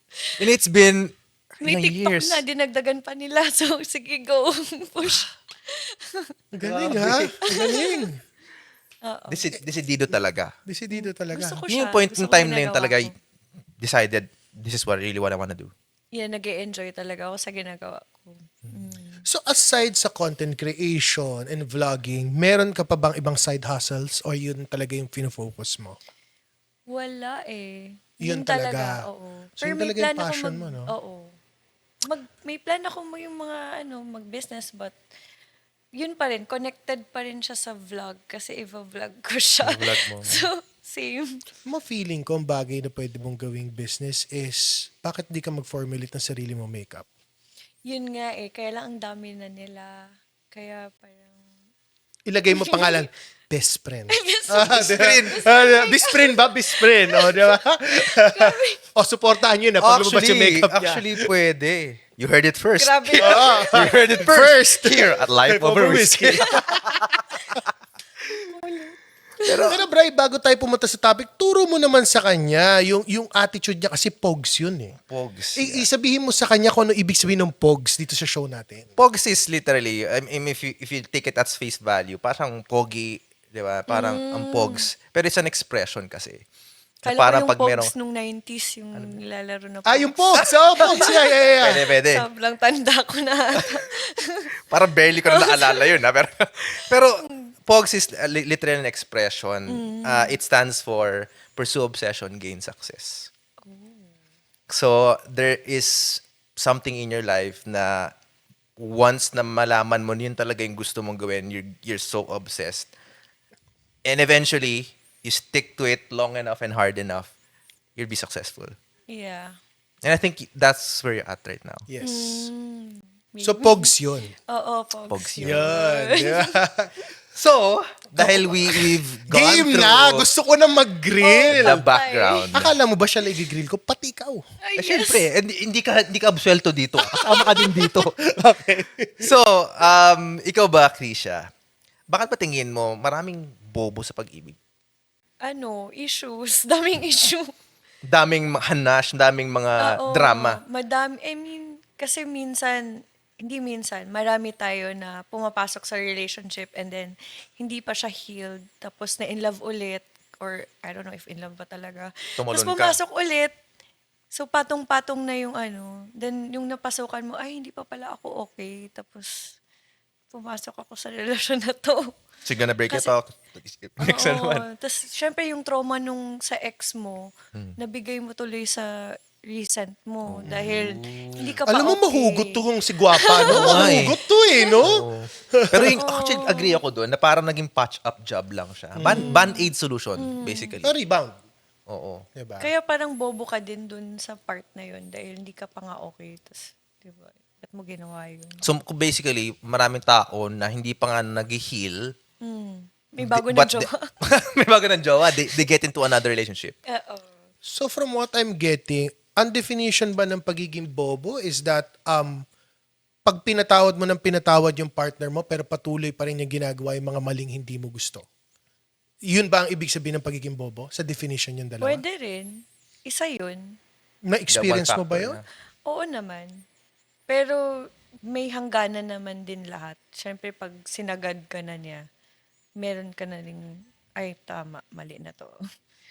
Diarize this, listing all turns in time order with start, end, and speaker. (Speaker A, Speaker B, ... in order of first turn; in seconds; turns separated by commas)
Speaker A: 0.4-2.4, Speaker B: 1.6-6.3, Speaker C: 6.5-8.2, Speaker A: 6.6-7.6, Speaker B: 7.5-8.1, Speaker B: 9.1-9.5, Speaker A: 9.3-10.5, Speaker C: 10.7-11.7, Speaker B: 10.9-13.1, Speaker A: 11.7-13.1, Speaker A: 13.8-15.7, Speaker B: 16.1-19.2, Speaker C: 19.2-26.0, Speaker B: 26.9-31.3, Speaker C: 28.2-29.0, Speaker C: 29.6-30.9, Speaker B: 32.0-34.9, Speaker B: 36.0-41.4, Speaker A: 39.6-40.5, Speaker C: 41.7-47.1, Speaker B: 47.9-51.4, Speaker C: 52.3-61.3, Speaker B: 52.6-53.0, Speaker B: 54.1-58.8, Speaker A: 54.6-55.4, Speaker A: 59.8-67.0, Speaker B: 62.8-64.2, Speaker C: 63.2-66.8, Speaker B: 66.4-67.2, Speaker A: 69.4-69.8, Speaker C: 69.7-74.9, Speaker A: 75.1-75.8, Speaker C: 75.6-78.9, Speaker A: 79.0-86.4, Speaker B: 83.9-84.8, Speaker B: 87.0-94.5, Speaker A: 87.1-87.9, Speaker C: 89.8-91.8, Speaker A: 90.8-92.3, Speaker A: 94.7-103.3, Speaker B: 95.3-96.0, Speaker B: 99.7-100.3, Speaker B: 103.6-104.1, Speaker A: 104.7-108.1, Speaker A: 108.8-112.9, Speaker A: 114.0-117.3, Speaker A: 118.0-118.8, Speaker B: 119.1-119.5, Speaker A: 120.0-121.8, Speaker C: 121.9-122.5, Speaker B: 122.0-123.9, Speaker C: 123.4-124.3, Speaker B: 124.5-126.5, Speaker A: 125.1-125.8, Speaker C: 125.4-127.0, Speaker A: 127.3-130.3, Speaker C: 128.2-131.8, Speaker B: 131.2-132.5, Speaker A: 131.5-132.7, Speaker C: 132.5-134.4, Speaker B: 134.6-135.2, Speaker A: 134.8-138.1, Speaker C: 137.1-139.3, Speaker A: 139.2-141.4, Speaker A: 142.1-144.6, Speaker B: 145.4-147.5, Speaker A: 148.1-150.6, Speaker B: 149.8-152.8, Speaker B: 153.4-163.5, Speaker A: 162.4-163.0, Speaker B: 164.3-169.5, Speaker B: 170.3-172.1, Speaker A: 172.4-174.7, Speaker B: 174.0-178.9, Speaker B: 179.4-182.6, Speaker A: 180.3-181.4, Speaker C: 180.4-180.7, Speaker C: 181.7-186.0, Speaker B: 183.2-184.1, Speaker A: 183.4-184.2, Speaker A: 184.8-190.9, Speaker B: 186.0-186.8, Speaker C: 188.9-189.4, Speaker B: 189.1-190.7, Speaker C: 190.8-191.3, Speaker A: 191.9-192.2, Speaker C: 192.3-192.7, Speaker B: 192.6-198.6, Speaker A: 198.6-202.0, Speaker B: 202.4-204.1, Speaker A: 203.2-206.8, Speaker B: 206.9-207.3, Speaker C: 207.7-212.4, Speaker C: 213.3-218.2, Speaker C: 219.3-222.0, Speaker B: 221.8-223.8, Speaker C: 224.3-225.4, Speaker A: 224.5-225.4, Speaker B: 225.8-226.6, Speaker B: 227.3-227.6, Speaker B: 228.3-232.0, Speaker B: 232.8-235.6